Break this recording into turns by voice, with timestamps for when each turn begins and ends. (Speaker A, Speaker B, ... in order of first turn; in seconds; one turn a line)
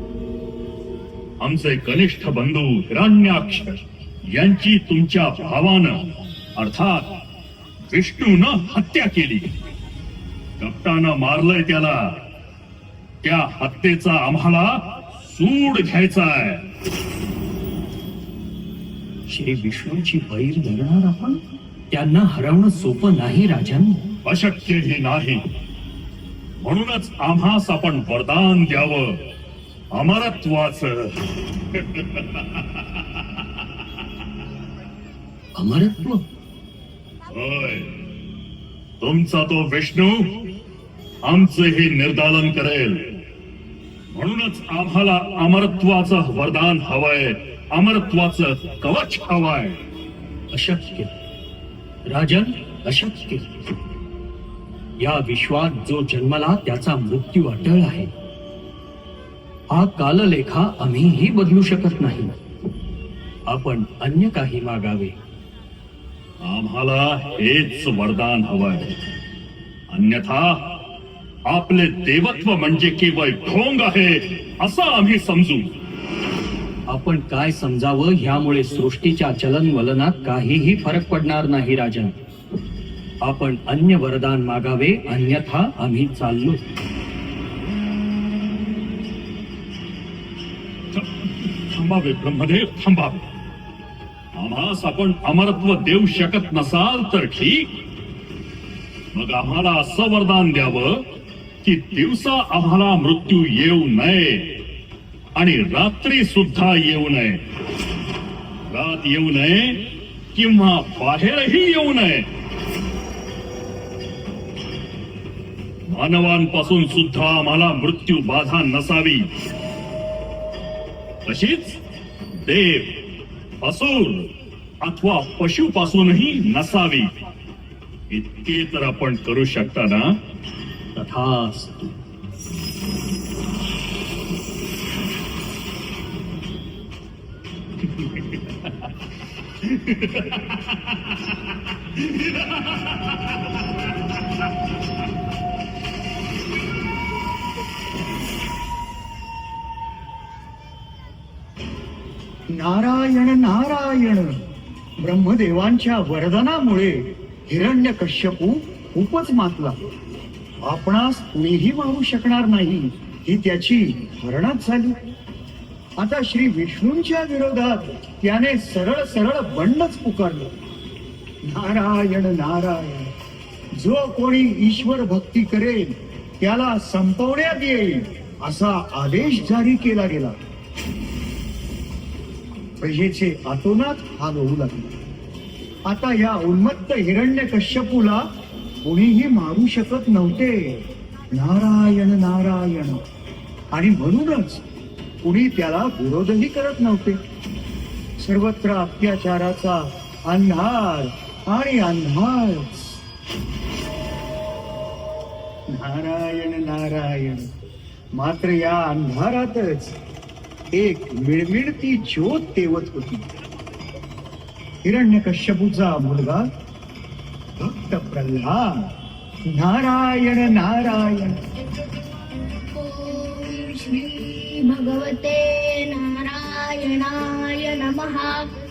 Speaker A: 1.4-6.0
Speaker A: 6.6-7.1
Speaker A: 7.9-9.5
Speaker A: 10.6-12.2
Speaker A: 13.2-16.7
Speaker B: 19.4-21.4
Speaker B: 21.9-24.0
Speaker C: 22.6-23.8
Speaker A: 24.2-25.4
Speaker A: 26.6-29.2
Speaker A: 29.9-31.2
Speaker A: 31.7-33.2
Speaker C: 35.6-36.0
Speaker A: 37.3-38.0
Speaker A: 39.0-40.4
Speaker A: 41.2-43.0
Speaker A: 44.1-49.8
Speaker C: 50.5-50.9
Speaker B: 52.1-53.4
Speaker C: 52.6-53.3
Speaker B: 55.0-58.1
Speaker C: 55.4-55.8
Speaker C: 57.5-57.9
Speaker B: 59.8-62.2
Speaker C: 61.0-62.3
Speaker B: 63.5-64.4
Speaker C: 63.8-65.0
Speaker A: 66.4-69.0
Speaker A: 69.9-70.8
Speaker A: 71.5-75.7
Speaker B: 76.9-80.6
Speaker C: 80.5-81.5
Speaker B: 81.2-82.1
Speaker B: 83.2-86.2
Speaker C: 84.4-85.0
Speaker C: 85.7-86.5
Speaker A: 90.9-93.2
Speaker A: 94.4-97.7
Speaker A: 99.1-101.0
Speaker A: 101.6-104.5
Speaker A: 105.3-107.4
Speaker A: 108.7-112.3
Speaker A: 115.9-119.3
Speaker A: 121.3-121.8
Speaker A: 122.4-123.0
Speaker A: 123.6-124.3
Speaker A: 124.8-127.1
Speaker A: 128.1-130.1
Speaker C: 130.9-131.9
Speaker A: 137.8-138.7
Speaker A: 139.6-141.3
Speaker A: 141.9-142.9
Speaker C: 152.6-154.3
Speaker C: 155.0-156.9
Speaker C: 157.5-159.8
Speaker C: 160.7-165.0
Speaker C: 166.0-170.5
Speaker C: 171.5-173.1
Speaker C: 173.8-175.9
Speaker C: 176.4-180.4
Speaker C: 182.8-184.9
Speaker C: 185.9-188.2
Speaker C: 188.8-190.6
Speaker C: 191.4-193.0
Speaker C: 193.7-194.6
Speaker C: 195.2-197.2
Speaker C: 198.2-199.8
Speaker C: 200.3-202.8
Speaker C: 205.7-207.5
Speaker C: 208.2-209.9
Speaker C: 210.8-213.2
Speaker C: 214.8-216.4
Speaker C: 217.6-218.7
Speaker C: 219.5-221.3
Speaker D: 222.7-228.4